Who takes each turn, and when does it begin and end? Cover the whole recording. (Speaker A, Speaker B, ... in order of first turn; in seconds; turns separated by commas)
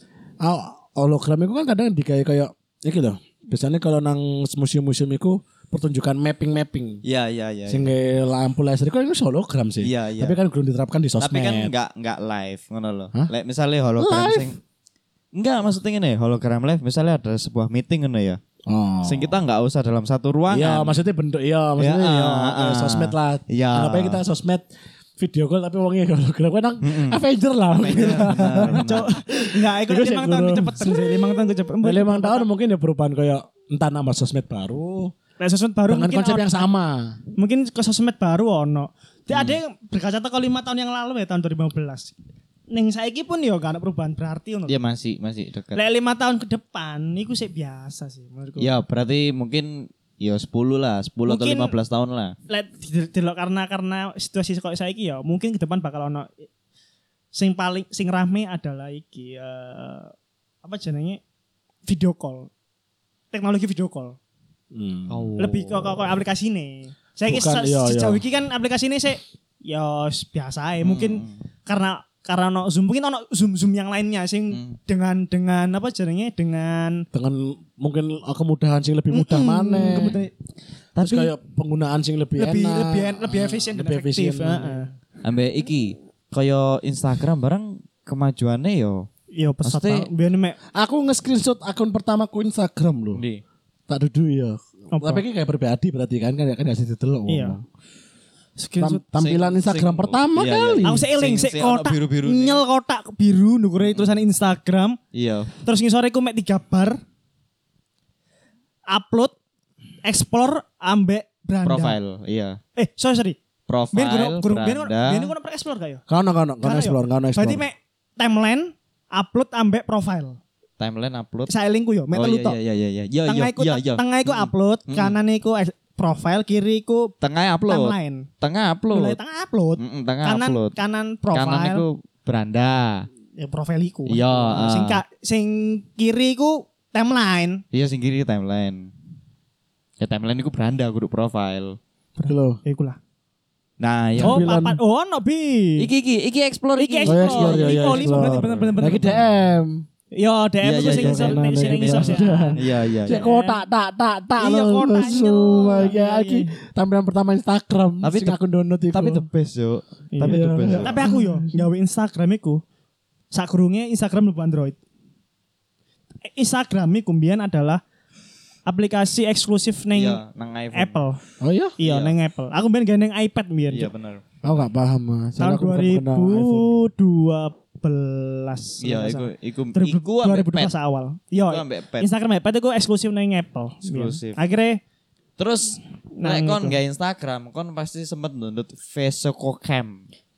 Speaker A: 0.4-7.0, Speaker B: 7.0-7.9, Speaker A: 7.7-11.7, Speaker B: 9.8-10.4, Speaker B: 11.2-14.6, Speaker A: 14.0-14.5, Speaker B: 15.3-18.4, Speaker A: 18.6-19.4, Speaker B: 19.0-21.0, Speaker A: 20.5-35.1, Speaker B: 21.8-24.2, Speaker B: 26.8-27.2, Speaker B: 27.8-29.1, Speaker C: 27.9-32.5, Speaker C: 35.4-36.6, Speaker A: 35.9-37.2, Speaker C: 37.4-42.1, Speaker B: 39.3-39.6, Speaker C: 42.7-44.8, Speaker B: 44.7-45.8, Speaker C: 45.7-48.7, Speaker B: 48.6-52.3, Speaker C: 51.2-51.7, Speaker C: 52.5-56.4, Speaker C: 57.3-61.2, Speaker C: 61.9-62.5, Speaker C: 63.3-64.2, Speaker A: 64.7-65.4, Speaker B: 65.1-65.9, Speaker C: 65.4-77.0, Speaker A: 67.3-68.2, Speaker B: 70.8-71.4, Speaker B: 74.5-74.8, Speaker A: 77.1-80.2, Speaker C: 79.1-80.3, Speaker B: 79.9-80.1, Speaker A: 81.0-84.8, Speaker C: 82.4-84.9, Speaker B: 85.2-89.1, Speaker C: 89.3-90.6, Speaker B: 89.6-90.1, Speaker A: 90.7-93.2, Speaker B: 93.2-93.4, Speaker A: 93.9-97.6, Speaker C: 94.9-95.2, Speaker C: 97.3-97.6, Speaker C: 98.6-99.0, Speaker A: 98.8-101.0, Speaker B: 99.2-102.6, Speaker C: 100.8-105.0, Speaker B: 103.8-104.2, Speaker B: 105.1-105.5, Speaker C: 105.6-107.0, Speaker C: 108.9-109.3, Speaker C: 110.0-112.0, Speaker B: 111.6-112.6, Speaker C: 112.8-113.4, Speaker B: 113.7-115.3, Speaker C: 113.9-116.0, Speaker A: 116.1-117.6, Speaker C: 116.6-120.4, Speaker B: 120.8-121.5, Speaker C: 121.5-122.6, Speaker B: 122.1-125.2, Speaker C: 123.2-127.1, Speaker B: 127.2-129.2, Speaker C: 127.7-128.3, Speaker C: 128.9-131.8, Speaker B: 129.8-130.7, Speaker B: 131.3-133.1, Speaker C: 133.4-137.6, Speaker B: 134.1-135.0, Speaker B: 137.7-138.9, Speaker B: 140.0-141.8, Speaker C: 142.2-143.0, Speaker A: 142.3-142.6, Speaker B: 143.8-144.5, Speaker A: 144.2-144.8, Speaker C: 144.2-145.9, Speaker B: 145.8-149.3, Speaker C: 146.8-149.2, Speaker A: 147.1-149.8, Speaker C: 150.1-153.6, Speaker B: 150.6-153.2, Speaker A: 150.8-159.2, Speaker C: 154.4-156.5, Speaker B: 158.0-158.4, Speaker B: 158.9-161.0, Speaker C: 160.1-162.6, Speaker A: 160.2-161.6, Speaker C: 163.3-164.8, Speaker C: 166.3-167.8, Speaker C: 168.7-170.2, Speaker B: 169.9-171.0, Speaker C: 170.7-171.2, Speaker A: 171.4-171.8, Speaker C: 171.8-173.9, Speaker B: 171.8-172.1, Speaker B: 173.7-174.2, Speaker A: 174.4-176.7, Speaker C: 175.4-184.8, Speaker B: 178.8-180.7, Speaker B: 181.5-182.1, Speaker B: 183.8-184.4, Speaker B: 185.4-190.0, Speaker C: 186.1-186.8